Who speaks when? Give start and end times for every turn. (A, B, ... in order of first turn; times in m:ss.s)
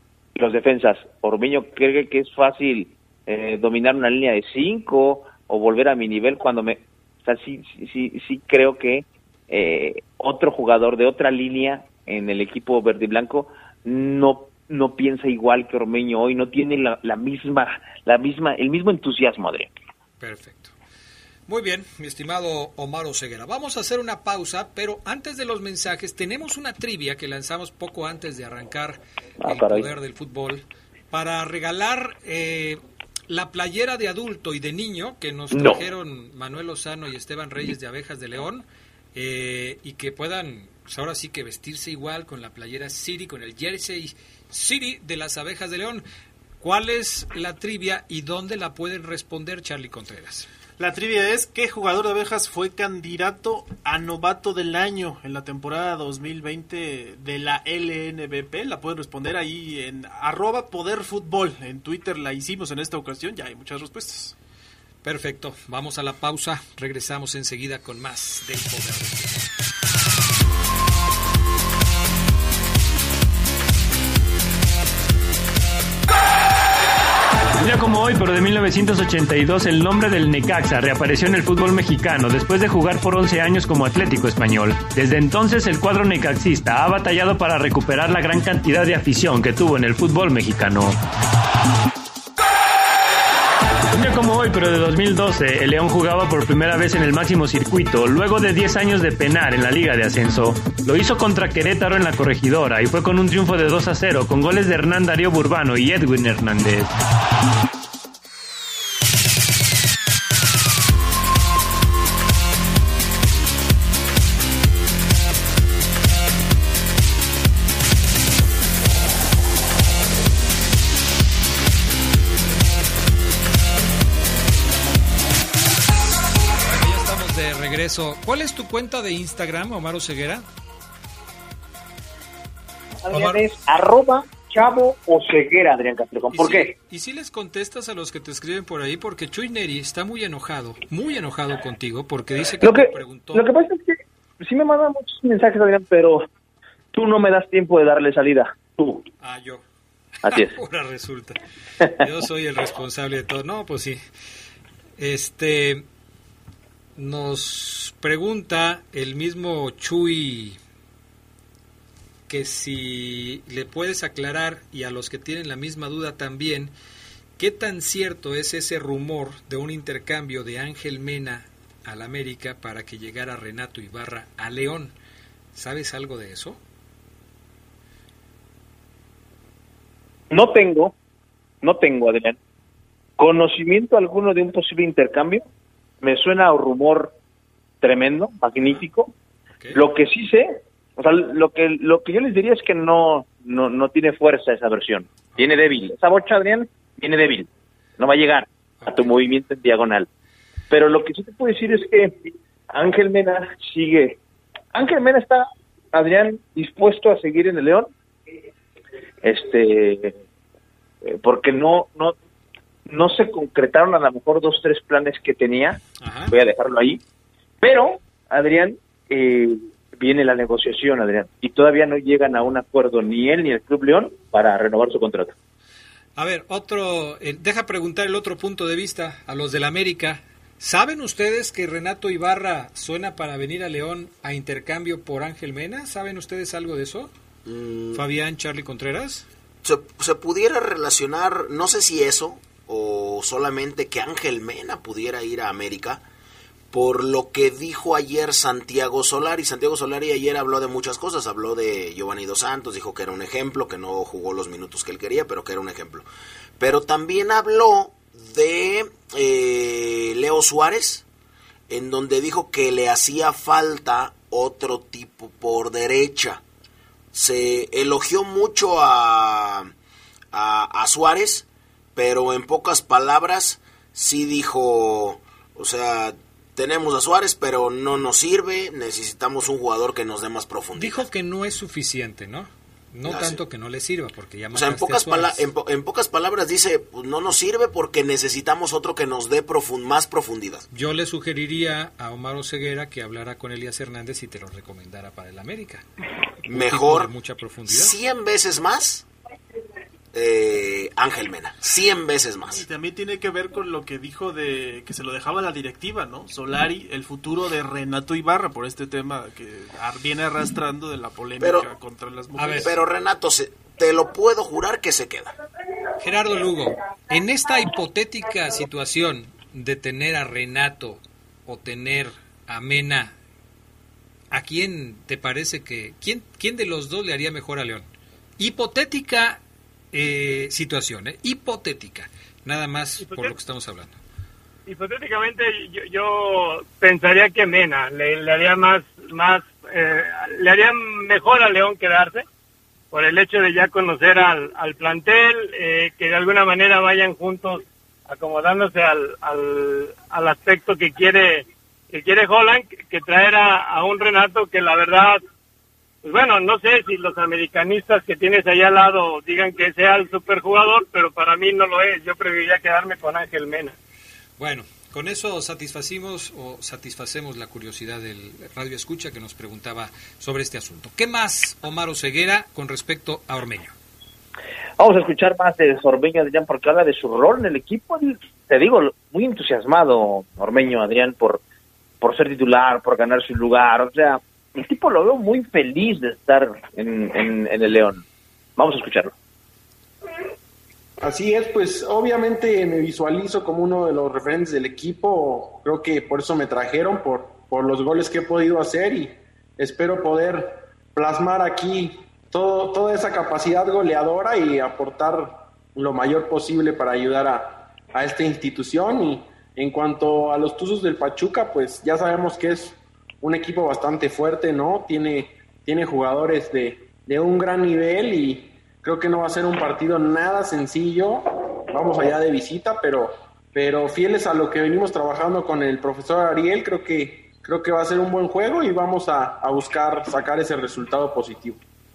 0:00.4-0:19.7 A
0:20.2-0:20.7 B
0:21.5-0:46.0 B
0:29.4-0:29.9 A
0:35.5-0:35.8 A
0:46.6-0:50.5 B
0:50.8-1:04.3 C
1:05.0-1:09.5 B
1:17.6-1:31.0 D
1:33.9-1:46.9 D
2:06.5-2:10.5 B
2:13.0-2:16.7 A
2:13.1-2:13.4 B
2:16.3-2:23.5 B
2:22.6-2:26.2 A
2:26.9-2:29.0 A
2:29.2-2:29.6 B
2:30.2-2:30.5 A
2:30.2-2:34.0 B
2:35.0-2:35.8 B
2:37.0-2:40.6 B
2:42.3-2:46.7 B
2:47.4-2:54.9 B
2:55.5-2:56.6 B
3:00.3-3:00.9 A
3:01.6-3:02.4 A
3:03.2-3:05.5 A
3:06.0-3:07.1 A
3:07.8-3:09.1 A
3:08.6-3:08.8 B
3:09.7-3:20.1 A
3:15.3-3:15.6 B
3:18.8-3:19.1 B
3:20.7-3:24.2 A
3:24.7-3:27.9 A
3:29.2-3:30.2 A
3:31.0-3:32.2 A
3:32.8-3:35.8 A
3:36.0-3:36.3 B
3:36.3-3:37.0 A
3:37.6-3:45.4 A
3:46.2-3:57.1 B
3:57.4-3:58.0 E
3:57.9-3:59.2 B
3:59.6-4:06.0 E
4:06.7-4:16.0 E
4:16.6-4:21.0 E
4:21.7-4:26.4 E
4:27.1-4:29.7 E
4:30.3-4:41.0 E
4:40.8-4:45.4 B
4:43.0-4:43.4 E
4:44.5-4:50.6 E
4:50.7-4:55.8 B
4:56.4-4:57.9 B
4:56.5-4:57.1 E
4:57.6-4:59.1 E
5:00.1-5:02.6 E
5:02.5-5:12.8 C
5:11.4-5:11.7 E
5:12.4-5:12.7 B
5:12.5-5:15.3 E
5:16.0-5:23.2 B
5:24.3-5:27.8 B
5:28.4-5:29.4 B
5:29.9-5:34.0 B
5:33.0-5:33.4 F
5:34.6-5:42.2 F
5:42.9-5:55.2 F
5:56.0-6:03.8 F
6:04.4-6:13.7 B
6:14.8-6:21.4 A
6:22.0-6:28.0 A
6:28.6-6:29.1 A
6:31.0-7:11.6 G